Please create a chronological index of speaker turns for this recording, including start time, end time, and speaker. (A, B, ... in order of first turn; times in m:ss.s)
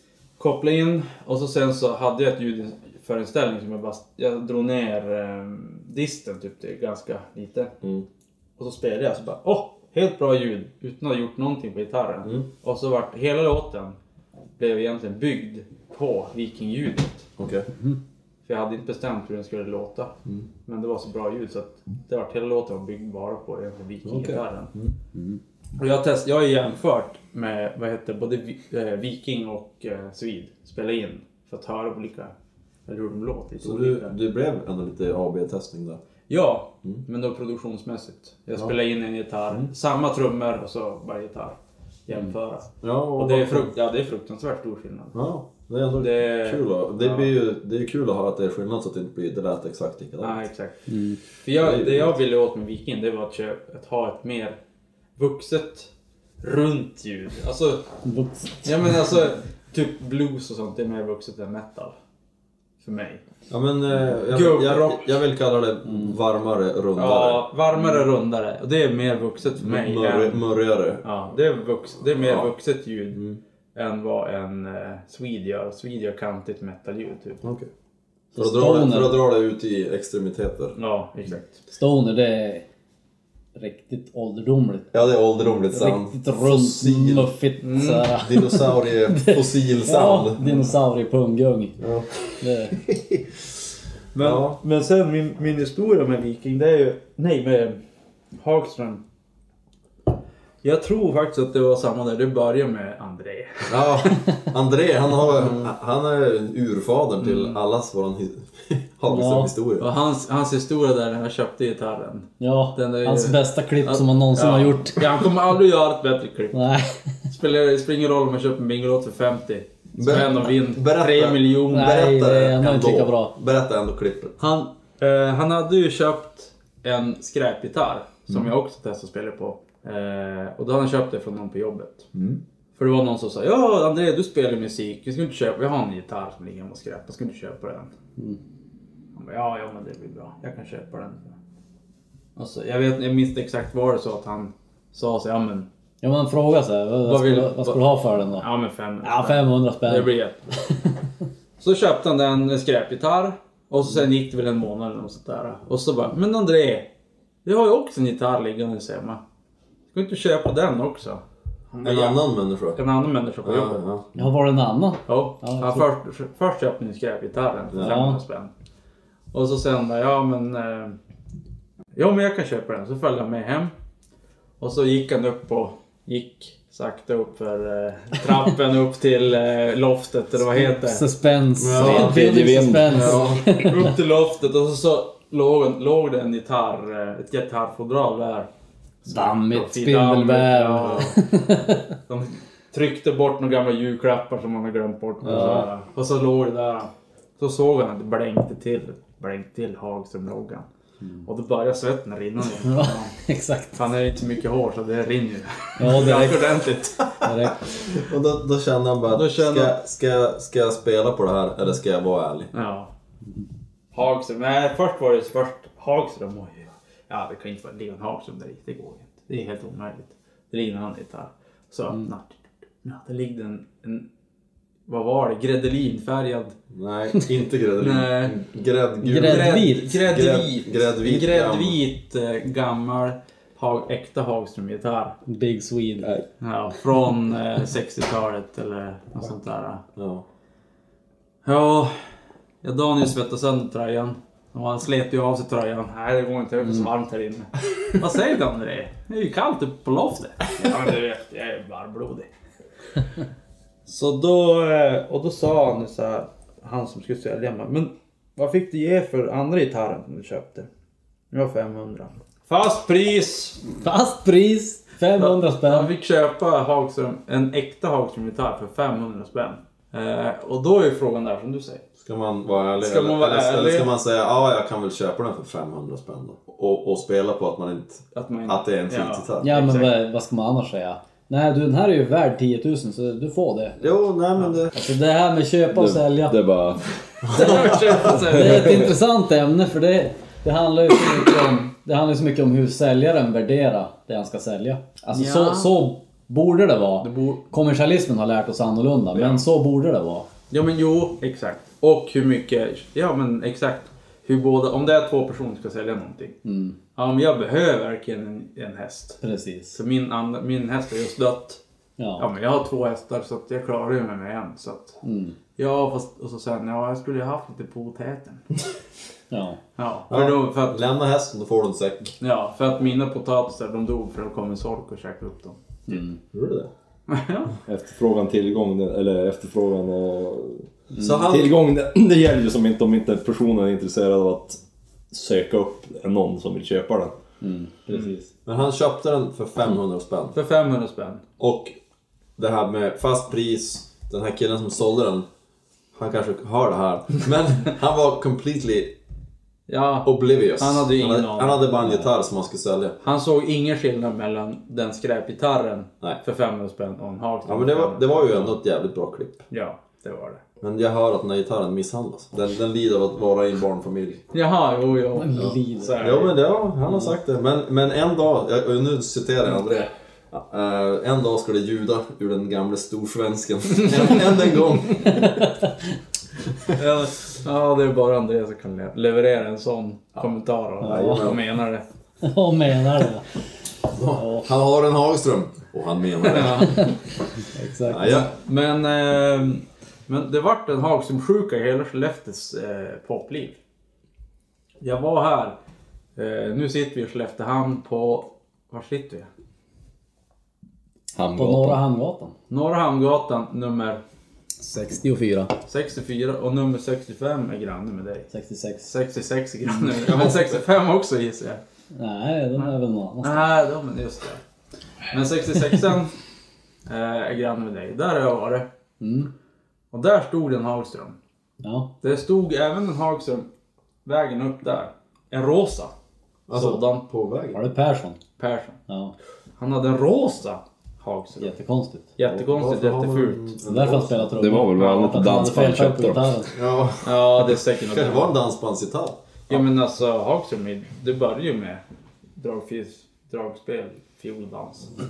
0:00.4-0:07.7 A
0:08.6-0:14.0 A
0:14.6-0:17.3 A
0:17.4-0:17.7 B
0:18.4-0:20.1 A
0:20.7-0:24.7 A
0:24.0-0:25.0 B
0:25.2-0:25.4 C
0:25.8-0:32.3 A
0:32.9-0:34.2 A
0:33.6-0:36.0 B
0:36.3-0:41.6 A
0:42.1-0:45.2 A
0:42.8-0:43.7 B
0:45.1-0:50.4 B
0:46.0-0:47.3 A
0:50.2-0:50.8 A
0:50.9-0:51.2 C
0:51.4-0:54.6 A
0:51.5-0:52.2 B
0:55.2-0:55.9 A
0:56.4-0:57.9 A
0:58.0-0:58.7 C
0:58.6-1:01.9 A
1:02.8-1:03.2 A
1:03.5-1:07.4 B
1:04.3-1:05.1 A
1:07.0-1:10.4 A
1:09.6-1:11.0 B
1:11.0-1:13.2 A
1:12.2-1:12.5 B
1:13.1-1:13.4 B
1:13.8-1:17.4 A
1:17.4-1:17.7 B
1:18.3-1:19.2 C
1:18.4-1:20.8 B
1:20.8-1:21.6 A
1:21.7-1:22.6 C
1:23.6-1:25.0 C
1:24.9-1:27.3 B
1:25.7-1:31.8 C
1:27.6-1:28.1 A
1:28.1-1:30.4 B
1:30.4-1:30.7 A
1:31.8-1:33.2 B
1:32.4-1:32.8 C
1:34.1-1:37.8 A
1:34.2-1:34.6 B
1:38.4-1:39.0 A
1:40.6-1:44.1 A
1:43.7-1:49.9 B
1:47.2-1:47.6 A
1:49.1-1:49.5 C
1:49.8-1:56.6 A
1:52.4-1:55.1 C
1:56.5-1:57.0 C
1:57.3-2:02.0 A
2:00.0-2:04.4 B
2:01.7-2:03.3 C
2:04.4-2:12.1 A
2:12.1-2:12.4 B
2:12.8-2:17.9 A
2:19.2-2:21.4 A
2:22.4-2:25.7 A
2:26.0-2:28.5 C
2:27.0-2:27.8 A
2:28.4-2:30.4 A
2:29.0-2:30.1 C
2:31.6-2:36.9 A
2:37.4-2:39.2 A
2:39.9-2:43.8 A
2:41.8-2:42.8 B
2:43.4-2:44.1 B
2:44.2-2:45.9 C
2:45.1-2:48.5 A
2:47.7-2:48.0 B
2:47.8-2:48.2 C
2:49.3-2:51.0 A
2:52.0-2:53.7 A
2:54.6-3:01.0 A
3:00.6-3:03.9 C
3:01.6-3:03.6 B
3:01.8-3:03.1 D
3:03.2-3:08.5 A
3:09.0-3:11.2 A
3:09.1-3:11.9 C
3:12.1-3:20.7 A
3:15.3-3:15.7 C
3:15.3-3:15.6 B
3:21.2-3:23.1 A
3:22.6-3:23.8 C
3:23.7-3:27.2 A
3:25.8-3:26.5 C
3:27.2-3:27.6 C
3:27.6-3:32.5 B
3:29.1-3:29.8 A
3:32.5-3:32.9 A
3:33.9-3:44.1 A
3:44.9-3:46.6 A
3:46.7-3:51.8 B
3:47.8-3:48.4 A
3:49.0-3:49.9 C
3:49.2-3:55.2 A
3:55.3-3:56.1 C
3:56.4-3:59.8 A
4:00.0-4:00.2 B
4:01.4-4:02.0 A
4:02.6-4:12.3 A
4:13.9-4:20.7 A
4:21.3-4:23.6 A
4:23.7-4:25.9 C
4:25.2-4:31.8 A
4:32.0-4:39.6 B
4:32.8-4:33.9 A
4:38.1-4:40.0 A
4:39.4-4:43.8 C
4:43.8-4:44.8 B
4:44.7-4:46.4 C
4:45.7-4:46.8 D
4:47.2-4:48.2 B
4:47.3-4:48.9 A
4:48.2-5:00.3 C
4:48.5-4:48.8 D
4:55.1-4:55.8 A
4:57.0-4:57.4 A
4:59.2-4:59.4 A
5:00.5-5:06.4 A
5:06.4-5:06.8 C
5:07.0-5:09.2 A
5:09.2-5:09.8 C
5:09.7-5:11.6 A
5:12.0-5:12.3 C
5:12.2-5:15.0 A
5:15.0-5:15.4 C
5:15.6-5:18.4 A
5:19.3-5:19.6 C
5:19.8-5:20.8 A
5:20.1-5:22.1 B
5:22.2-5:26.0 A
5:25.9-5:26.2 C
5:26.3-5:26.7 B
5:27.1-5:27.5 A
5:27.7-5:30.7 D
5:31.0-5:31.6 B
5:31.2-5:34.6 D
5:35.1-5:37.2 D
5:37.4-5:38.3 C
5:38.5-5:40.4 B
5:40.3-5:41.2 A
5:41.4-5:41.8 B
5:42.4-5:45.3 B
5:46.0-5:49.0 B
5:49.7-5:51.7 A
5:50.0-5:53.0 B
5:53.0-5:58.6 A
5:57.4-5:59.4 B
5:59.5-6:00.4 A
6:00.6-6:04.2 B
6:04.3-6:06.4 A
6:05.2-6:06.1 C
6:06.0-6:15.6 B
6:16.8-6:21.8 A
6:20.8-6:21.3 C
6:20.8-6:21.4 B
6:22.2-6:23.3 C
6:23.9-6:26.9 B
6:24.2-6:24.4 C
6:26.2-6:26.9 A
6:27.5-6:28.2 C
6:27.9-6:28.3 B
6:28.0-6:33.6 A
6:34.8-6:35.6 A
6:36.2-6:39.3 A
6:41.1-6:41.8 D
6:41.4-6:42.3 C
6:42.5-6:44.0 A
6:44.6-6:45.5 C
6:45.7-6:48.3 A
6:48.3-6:48.9 C
6:48.9-6:51.6 A
6:51.9-6:53.5 C
6:53.2-6:54.4 A
6:55.1-6:56.1 A
6:56.9-6:58.7 A
6:59.0-6:59.3 C
6:59.9-7:01.2 A
7:01.6-7:01.9 C
7:02.0-7:03.5 A
7:04.0-7:05.9 A
7:06.5-7:07.6 B
7:06.5-7:07.0 A
7:07.5-7:08.2 C
7:08.4-7:08.8 A
7:08.9-7:09.2 C
7:09.6-7:11.5 A
7:11.4-7:12.1 C
7:12.2-7:13.5 A
7:12.2-7:14.3 B
7:13.6-7:16.5 C
7:14.4-7:16.3 D
7:14.8-7:15.2 A
7:16.5-7:19.6 B
7:17.0-7:18.4 A
7:19.5-7:21.8 A
7:22.4-7:24.9 A